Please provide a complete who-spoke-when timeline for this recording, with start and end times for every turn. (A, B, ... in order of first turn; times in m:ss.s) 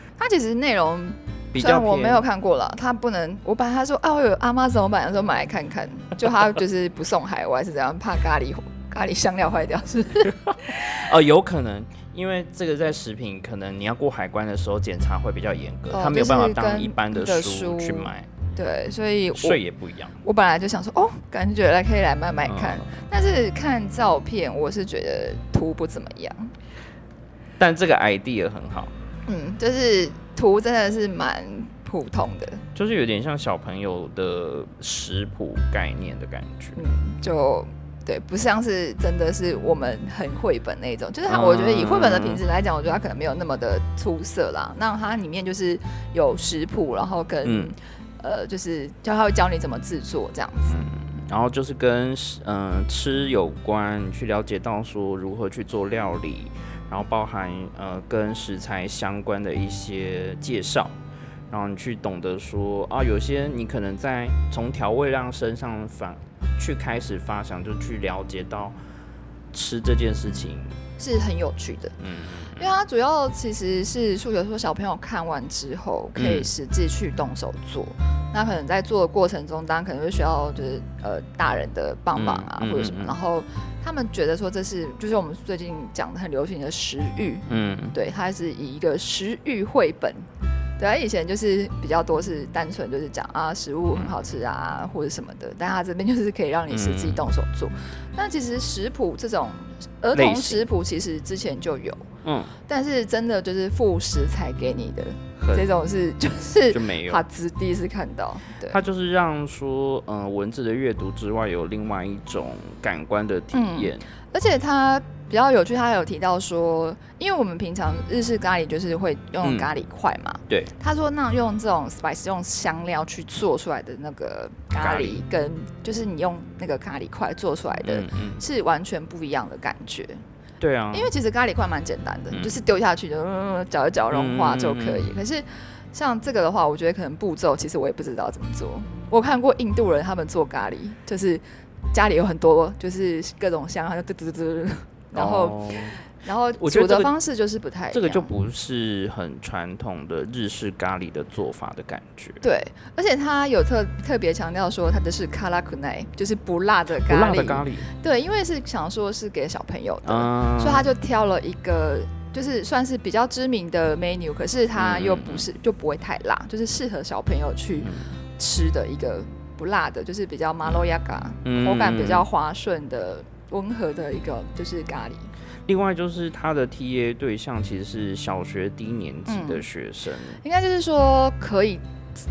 0:00.2-0:10.9 A
0:01.5-0:02.2 B
0:10.5-0:18.3 B
0:15.9-0:19.6 A
0:19.4-0:20.2 B
0:20.2-0:26.5 A
0:22.5-0:23.0 B
0:27.6-0:28.9 B
0:29.3-0:32.6 A
0:32.8-0:36.8 B
0:36.8-0:50.8 A
0:41.3-0:42.4 B
0:47.4-0:47.8 B
0:50.7-1:01.0 B
1:01.5-1:08.8 B
1:09.5-1:10.8 B
1:11.0-1:12.0 A
1:12.0-1:12.7 B
1:12.6-1:30.3 A
1:16.2-1:16.5 B
1:22.2-1:23.2 B
1:27.5-1:28.0 B
1:30.8-1:42.1 A
1:36.7-1:37.3 B
1:40.1-1:40.7 B
1:42.2-1:42.5 B
1:42.7-1:48.8 A
1:45.4-1:45.7 B
1:46.7-1:47.2 B
1:48.7-1:54.1 B
1:53.5-2:10.2 A
1:59.4-1:59.7 B
2:04.8-2:05.2 B
2:07.8-2:08.4 B
2:10.6-2:11.1 B
2:10.9-2:28.3 A
2:12.3-2:12.6 B
2:14.1-2:15.1 B
2:25.1-2:26.0 B
2:26.6-2:27.1 B
2:27.9-2:32.4 B
2:32.4-2:55.3 A
2:37.0-2:37.9 B
2:40.0-2:40.9 B
2:44.8-2:45.4 B
2:47.8-2:48.1 B
2:51.4-2:52.3 B
2:55.7-3:00.4 B
2:59.3-2:59.6 A
3:00.4-3:01.8 A